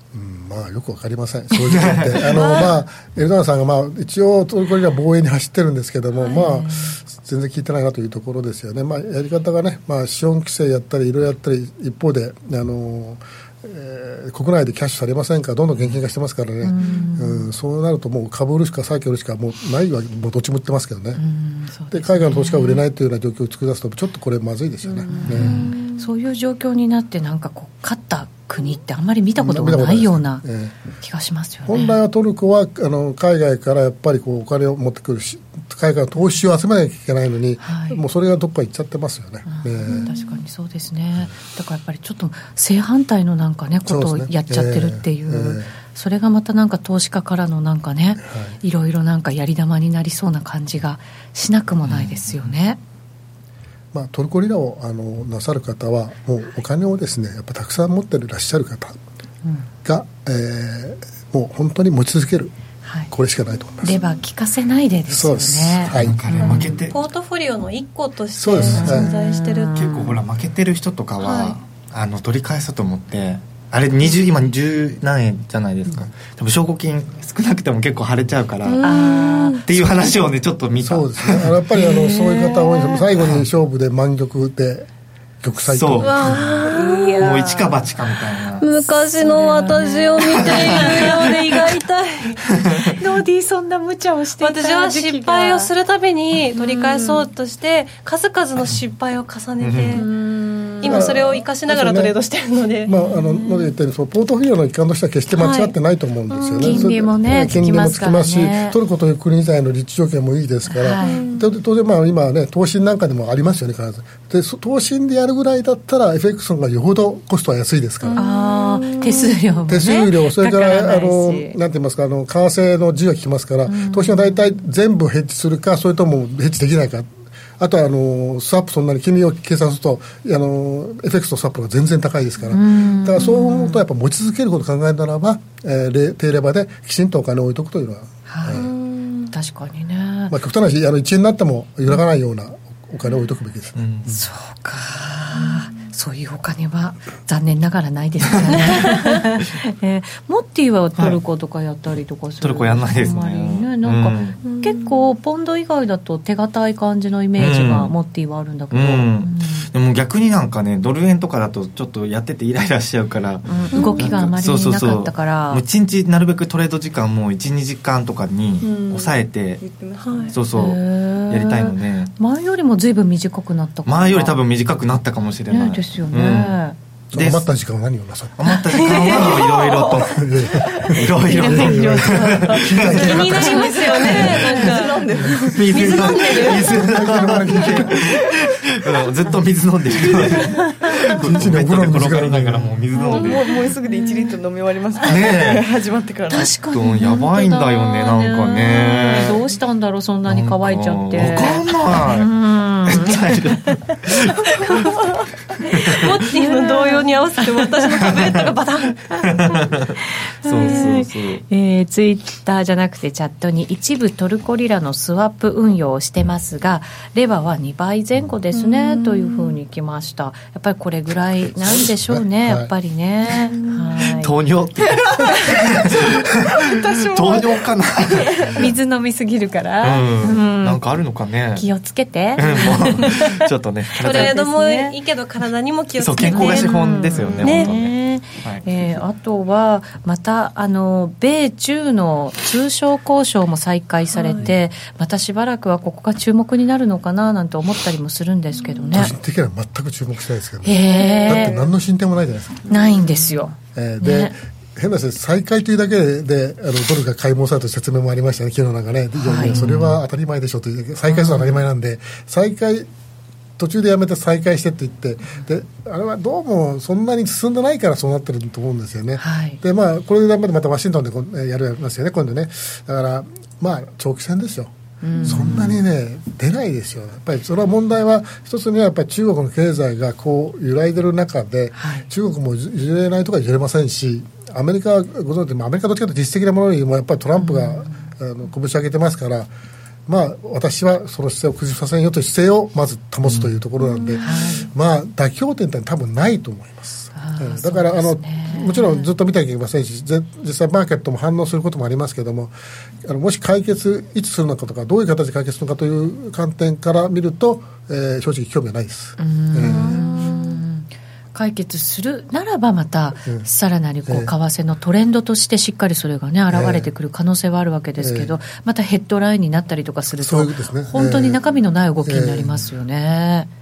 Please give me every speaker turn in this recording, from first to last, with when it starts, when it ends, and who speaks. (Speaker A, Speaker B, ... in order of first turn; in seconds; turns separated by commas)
Speaker A: 0.1-21.2, Speaker B: 1.6-2.5, Speaker C: 6.2-7.0, Speaker C: 16.6-17.5, Speaker C: 21.1-22.8, Speaker A: 21.9-25.6, Speaker C: 25.1-30.4, Speaker B: 25.3-25.7, Speaker A: 29.4-30.8, Speaker C: 31.0-31.9, Speaker A: 31.6-40.1, Speaker C: 37.6-38.0, Speaker C: 39.4-52.8, Speaker D: 39.9-40.4, Speaker A: 43.9-45.8, Speaker A: 48.2-48.6, Speaker B: 51.8-52.5, Speaker A: 53.9-59.0, Speaker A: 59.8-62.5, Speaker C: 62.8-63.1, Speaker A: 63.1-64.0, Speaker C: 63.8-66.7, Speaker A: 65.1-66.2, Speaker B: 65.9-67.0, Speaker D: 66.9-69.8, Speaker A: 68.3-69.1, Speaker C: 68.6-70.2, Speaker B: 69.7-79.0, Speaker D: 71.2-71.5, Speaker D: 78.6-79.6, Speaker C: 78.8-79.6, Speaker B: 79.6-81.5, Speaker A: 80.8-84.9, Speaker C: 81.7-83.0, Speaker B: 83.2-83.4, Speaker A: 85.4-86.5, Speaker B: 85.7-88.7, Speaker D: 86.0-87.3, Speaker C: 86.7-87.8, Speaker D: 88.6-92.5, Speaker C: 89.2-91.4, Speaker B: 90.2-91.8, Speaker B: 92.5-92.8, Speaker C: 93.0-95.7, Speaker D: 94.4-100.1, Speaker C: 96.6-97.3, Speaker B: 99.6-100.0, Speaker C: 99.9-101.0, Speaker D: 100.8-102.9, Speaker A: 100.8-102.1, Speaker A: 102.8-118.2, Speaker C: 105.3-105.7, Speaker D: 106.3-107.0, Speaker C: 106.6-108.7, Speaker C: 110.7-111.2, Speaker D: 111.0-111.5, Speaker D: 118.0-119.3, Speaker C: 118.2-121.6, Speaker A: 119.7-138.7, Speaker C: 123.7-124.5, Speaker C: 132.5-133.8, Speaker C: 138.3-138.6, Speaker D: 138.5-139.3, Speaker C: 139.3-140.3, Speaker A: 140.3-144.2, Speaker B: 143.8-144.2, Speaker C: 144.1-159.7, Speaker D: 145.3-145.9, Speaker B: 152.4-154.4, Speaker D: 154.4-155.1, Speaker B: 157.4-157.9, Speaker B: 158.7-169.6, Speaker C: 163.4-165.6, Speaker D: 163.7-164.2, Speaker E: 163.8-164.0, Speaker E: 168.6-170.3, Speaker D: 170.0-170.3, Speaker B: 170.3-172.1, Speaker C: 170.5-174.4, Speaker B: 173.8-176.6, Speaker C: 175.5-176.8, Speaker A: 177.1-179.4, Speaker B: 177.1-177.4, Speaker B: 178.4-183.5, Speaker D: 178.8-180.1, Speaker A: 180.0-184.3, Speaker C: 182.0-182.6, Speaker D: 182.8-187.9, Speaker E: 182.9-186.5, Speaker B: 184.1-184.5, Speaker B: 185.4-193.5, Speaker A: 186.6-188.0, Speaker E: 187.7-188.5, Speaker E: 190.0-190.5, Speaker C: 190.5-191.0, Speaker A: 191.2-192.7, Speaker E: 192.9-196.5, Speaker C: 193.8-194.3, Speaker B: 195.0-195.6, Speaker C: 196.3-203.8, Speaker B: 196.4-199.4, Speaker B: 200.3-202.3, Speaker B: 202.8-204.9, Speaker B: 205.6-206.2, Speaker D: 205.8-209.6, Speaker C: 206.4-207.1, Speaker B: 208.0-208.4, Speaker B: 209.3-211.4, Speaker C: 210.4-224.3, Speaker D: 210.6-210.9, Speaker A: 221.6-222.7, Speaker B: 224.1-228.7, Speaker E: 225.1-225.3, Speaker E: 226.7-228.7, Speaker C: 228.5-230.8, Speaker B: 229.8-231.7, Speaker C: 231.5-233.4, Speaker B: 232.4-234.4, Speaker D: 234.0-236.8, Speaker C: 234.1-235.0, Speaker B: 236.0-238.7, Speaker C: 236.2-249.1, Speaker D: 237.4-237.7, Speaker D: 244.1-244.5, Speaker D: 248.6-248.9, Speaker A: 248.9-252.8, Speaker C: 250.6-251.6, Speaker D: 251.0-251.5, Speaker C: 252.7-254.3, Speaker A: 253.7-262.9, Speaker C: 259.2-259.6, Speaker B: 259.4-260.0, Speaker C: 261.1-261.6, Speaker A: 263.6-289.5, Speaker C: 269.2-269.6, Speaker C: 275.0-275.8, Speaker C: 281.8-282.1, Speaker C: 287.4-287.9, Speaker A: 290.1-310.1, Speaker D: 293.8-294.3, Speaker C: 294.2-294.6, Speaker C: 297.1-299.1, Speaker C: 309.2-323.5, Speaker D: 309.6-310.6, Speaker A: 314.1-314.3, Speaker A: 316.5-316.9, Speaker A: 318.0-318.4, Speaker A: 320.2-321.4, Speaker A: 322.0-322.6